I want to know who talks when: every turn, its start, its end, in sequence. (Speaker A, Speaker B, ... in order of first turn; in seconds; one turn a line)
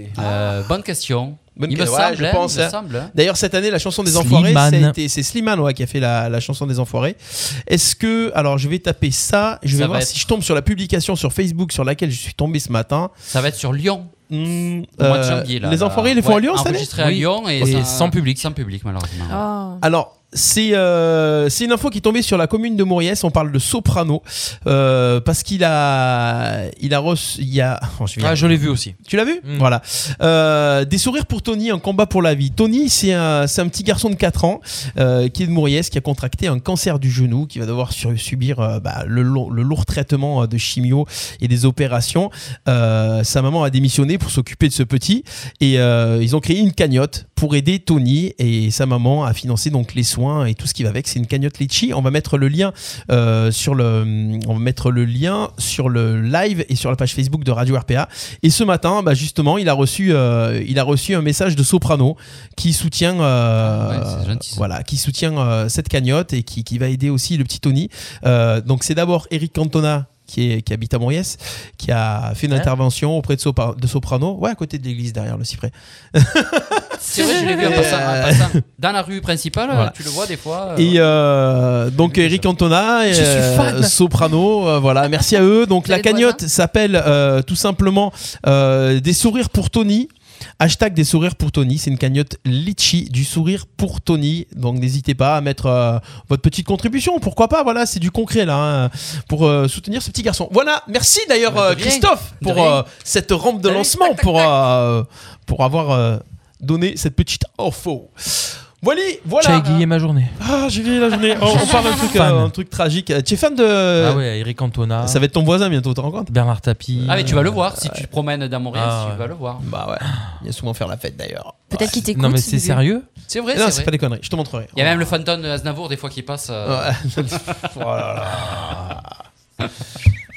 Speaker A: 0.2-3.1
Speaker B: 1.6-13.1
Speaker C: 4.1-5.0
Speaker A: 9.7-10.2
Speaker A: 13.3-14.1
Speaker B: 14.3-16.9
Speaker A: 15.0-19.4
Speaker C: 16.9-18.5
Speaker D: 19.3-19.8
Speaker B: 19.8-78.5
Speaker C: 28.2-29.7
Speaker A: 63.6-64.6
Speaker A: 77.0-81.1
Speaker B: 79.7-80.0
Speaker B: 80.8-109.8
Speaker A: 82.0-82.5
Speaker C: 83.1-83.9
Speaker D: 85.9-86.4
Speaker A: 101.5-102.8
Speaker A: 103.7-103.9
Speaker C: 109.4-110.4
Speaker B: 110.4-114.2
Speaker C: 111.9-112.5
Speaker C: 114.0-115.2
Speaker B: 115.0-116.3
Speaker C: 116.3-117.5
Speaker B: 116.9-118.1
Speaker A: 117.1-119.7
Speaker C: 118.7-119.3
Speaker B: 119.6-122.0
Speaker D: 121.7-122.8
Speaker C: 122.0-123.1
Speaker A: 123.3-123.9
Speaker B: 123.5-125.2
Speaker A: 124.8-127.6
Speaker B: 126.7-129.2